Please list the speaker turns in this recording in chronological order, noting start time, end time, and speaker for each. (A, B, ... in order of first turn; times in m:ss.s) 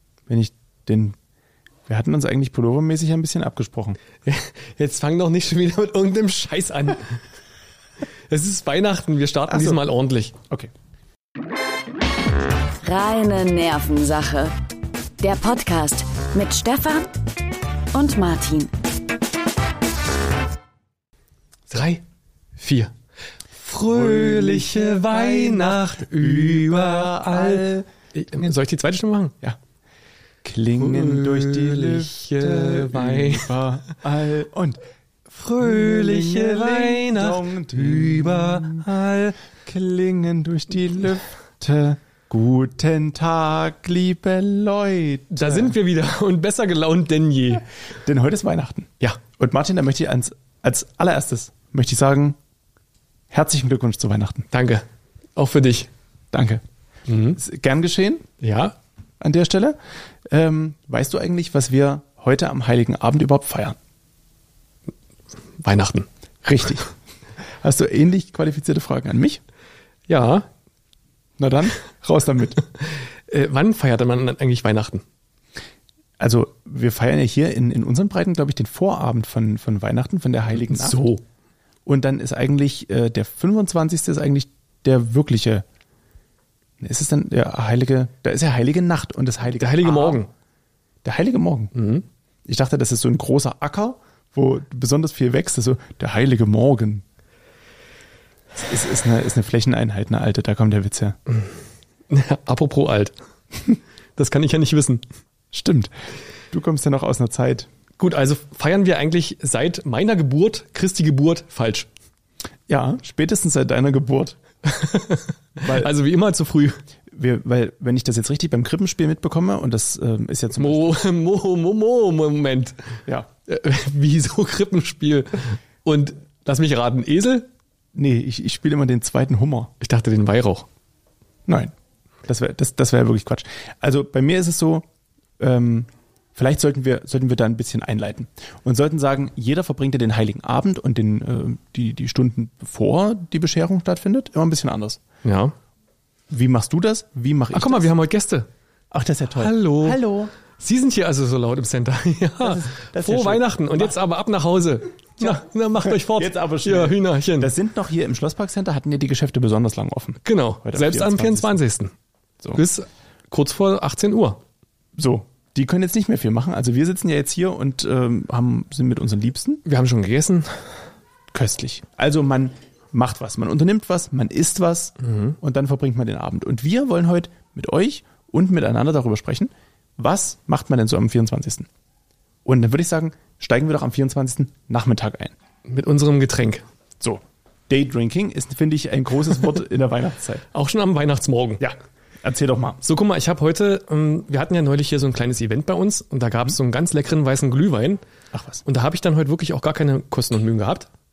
0:00.3-0:01.2 A
0:01.9-0:04.0 A
0:04.2-0:07.2 B
0:08.3-0:10.4 B
0:09.5-0:09.8 A
0:12.8-0:14.5 C
0:15.2-0:17.1 C
0:17.9-0:18.7 C
0:21.7-0:22.0 B
0:22.6-0:22.9 B
0:23.6-0:29.4 B
0:23.8-0:28.5 A
0:30.4-0:34.8 A
0:30.8-0:33.6 B
0:35.3-0:39.2 B
0:35.6-0:45.7 A
0:45.3-0:47.6 B
0:48.0-0:52.4 A
0:53.3-0:54.5 A
0:54.5-0:55.9 B
0:56.3-0:56.6 A
0:57.1-0:57.4 B
0:57.3-0:58.3 A
0:58.4-0:58.8 B
0:59.2-0:59.8 A
1:00.3-1:03.8 A
1:05.6-1:06.1 B
1:06.4-1:06.9 A
1:07.6-1:09.4 A
1:10.1-1:10.5 B
1:11.4-1:12.6 A
1:12.8-1:15.0 B
1:16.2-1:21.0 A
1:20.5-1:21.2 B
1:21.9-1:25.6 A
1:26.8-1:30.2 A
1:29.6-1:30.3 B
1:31.0-1:31.7 A
1:31.8-1:32.0 B
1:32.5-1:37.0 A
1:38.6-1:41.2 A
1:42.1-1:43.2 B
1:44.2-1:45.0 B
1:45.5-1:45.9 A
1:46.5-1:47.7 A
1:48.0-1:51.9 B
1:52.7-1:54.4 A
1:54.6-1:56.8 B
1:55.6-1:55.9 A
1:57.1-2:01.0 A
2:00.6-2:02.8 B
2:03.5-2:07.5 B
2:08.0-2:09.7 A
2:09.8-2:10.7 B
2:11.5-2:11.7 A
2:12.3-2:14.8 A
2:15.4-2:25.0 A
2:25.2-2:25.5 B
2:26.3-2:27.9 A
2:27.5-2:28.5 B
2:28.9-2:30.3 A
2:29.4-2:30.0 B
2:30.6-2:37.5 B
2:32.4-2:34.0 A
2:35.2-2:41.6 A
2:40.2-2:41.9 B
2:42.6-2:44.4 B
2:45.0-2:49.6 A
2:49.6-2:50.7 B
2:51.3-3:01.7 A
2:55.0-2:55.4 B
3:02.4-3:05.4 A
3:05.7-3:06.6 B
3:07.0-3:10.5 A
3:10.5-3:11.6 B
3:11.6-3:12.8 A
3:12.8-3:18.0 B
3:18.3-3:18.6 A
3:18.6-3:20.9 B